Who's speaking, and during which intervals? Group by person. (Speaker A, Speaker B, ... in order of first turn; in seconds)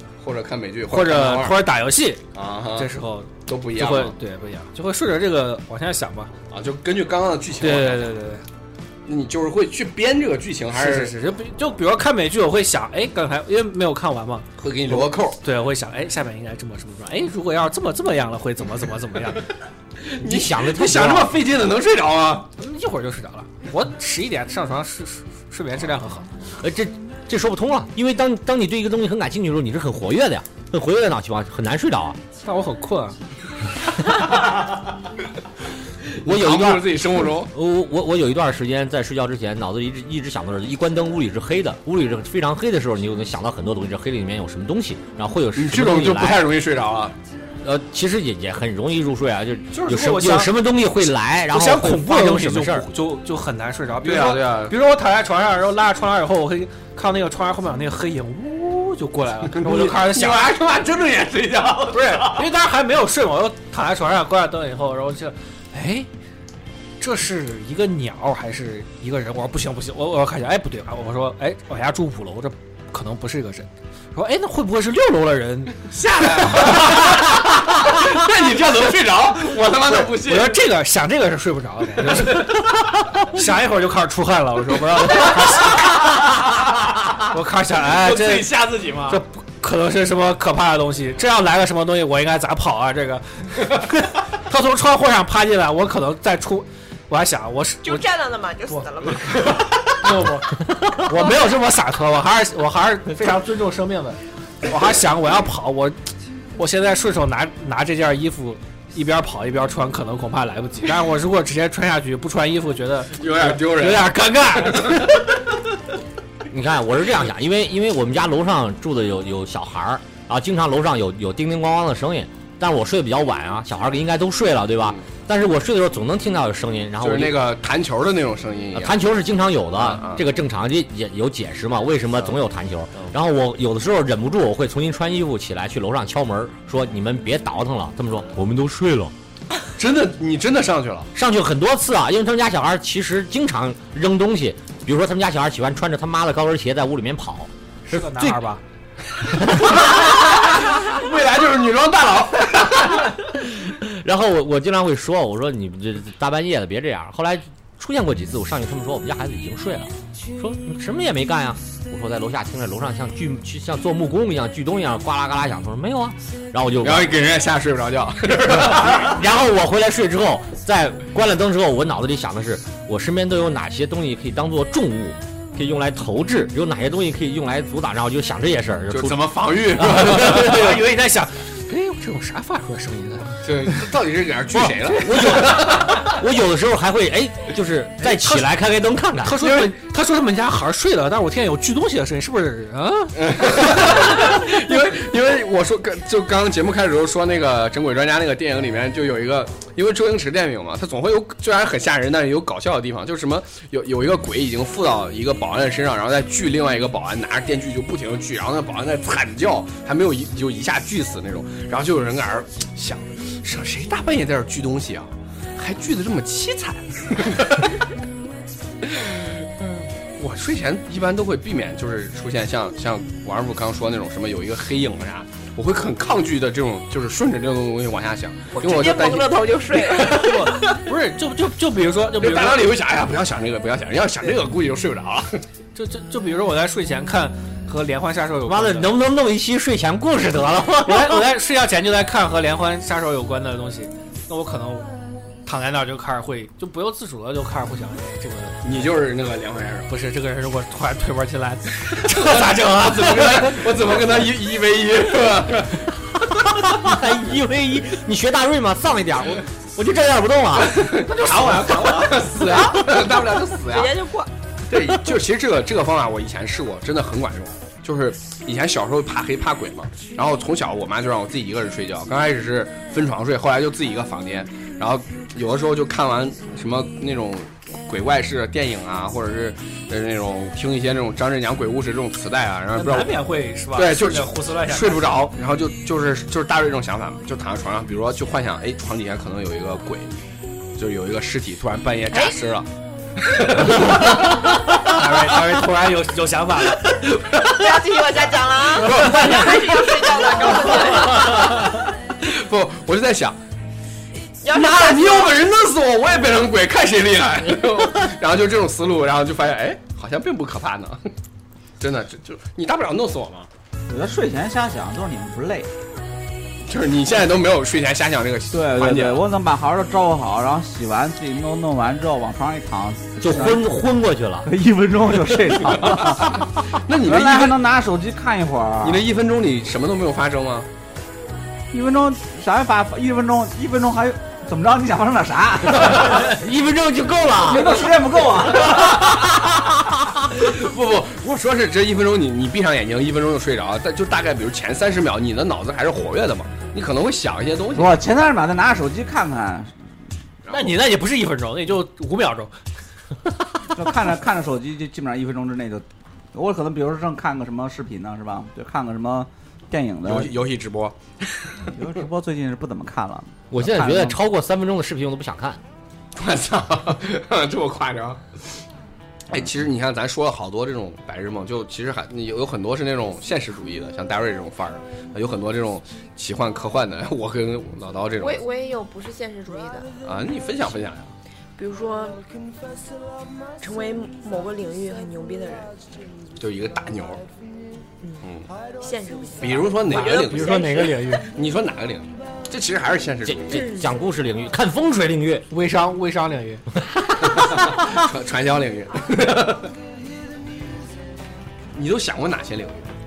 Speaker A: 0.2-1.6, 2.4-2.9, 3.5-4.2, 6.5-8.1, 9.1-11.1, 14.6-15.4, 20.1-22.5, 36.1-37.5, 45.5-47.1, 54.0-54.8, 59.5-62.5, 75.9-80.6, 87.9-89.2, 113.2-114.1, 114.7-115.0, 127.0-129.0, 129.7-130.2, 139.8-141.1, 149.6-153.1, 166.8-169.2, 178.9-180.8, 183.4-186.2, 189.4-189.7, 193.2-217.7, 218.8-219.3, 220.2-230.8, 232.2-235.4, 248.6-249.9, 251.9-255.9, 260.7-263.9, 264.7-283.2, 283.8-290.1, 290.8-294.4, 296.8-297.8, 298.8-303.4, 304.5-311.0, 311.8-313.5, 316.7-319.2, 325.9-327.6, 328.8-330.7, 338.7-338.9, 340.3-348.0, 350.5-350.8, 360.1-361.7, 366.2-368.4, 369.3-378.4, 380.0-381.1, 386.4-387.2, 388.2-388.5, 389.4-390.7, 391.3-393.7, 397.3-399.7, 401.7-402.9
Speaker B: 0.9-2.2, 2.8-6.3, 7.6-8.4, 10.7-19.5, 22.6-26.3, 32.4-33.2, 49.7-50.5, 51.5-60.5, 61.9-66.1, 67.0-75.9, 76.5-77.0, 79.9-82.6, 83.2-86.3, 87.2-88.5, 89.1-98.0, 98.7-106.0, 106.6-115.3, 147.9-148.6, 179.8-183.9, 188.0-188.5, 189.2-194.2, 230.0-232.8, 235.8-238.9, 240.8-244.9, 245.4-248.9, 249.9-253.8, 261.1-262.2, 282.8-285.2, 294.8-297.0, 298.9-299.6, 350.5-352.6, 389.9-391.3, 395.5-396.6
Speaker C: 20.2-21.4, 26.6-32.2, 36.2-46.5, 47.6-52.9, 100.7-101.0, 116.5-127.5, 128.7-139.1, 141.2-148.4, 149.4-149.8, 153.3-167.1, 168.5-180.7, 184.6-189.4, 238.5-241.2, 256.3-260.8, 323.2-324.5, 335.8-337.9, 339.3-340.0, 363.5-365.6, 393.3-395.5, 396.8-397.8
Speaker D: 97.8-99.6, 228.5-230.4, 263.7-264.3, 297.4-301.7, 304.4-305.4, 378.2-379.9, 381.6-382.2, 383.6-385.7, 388.8-391.2, 393.5-393.9
Speaker E: 313.9-315.7, 318.5-323.7, 324.4-329.0, 331.7-336.4, 337.4-339.0, 347.7-349.8, 353.7-360.4, 361.7-364.2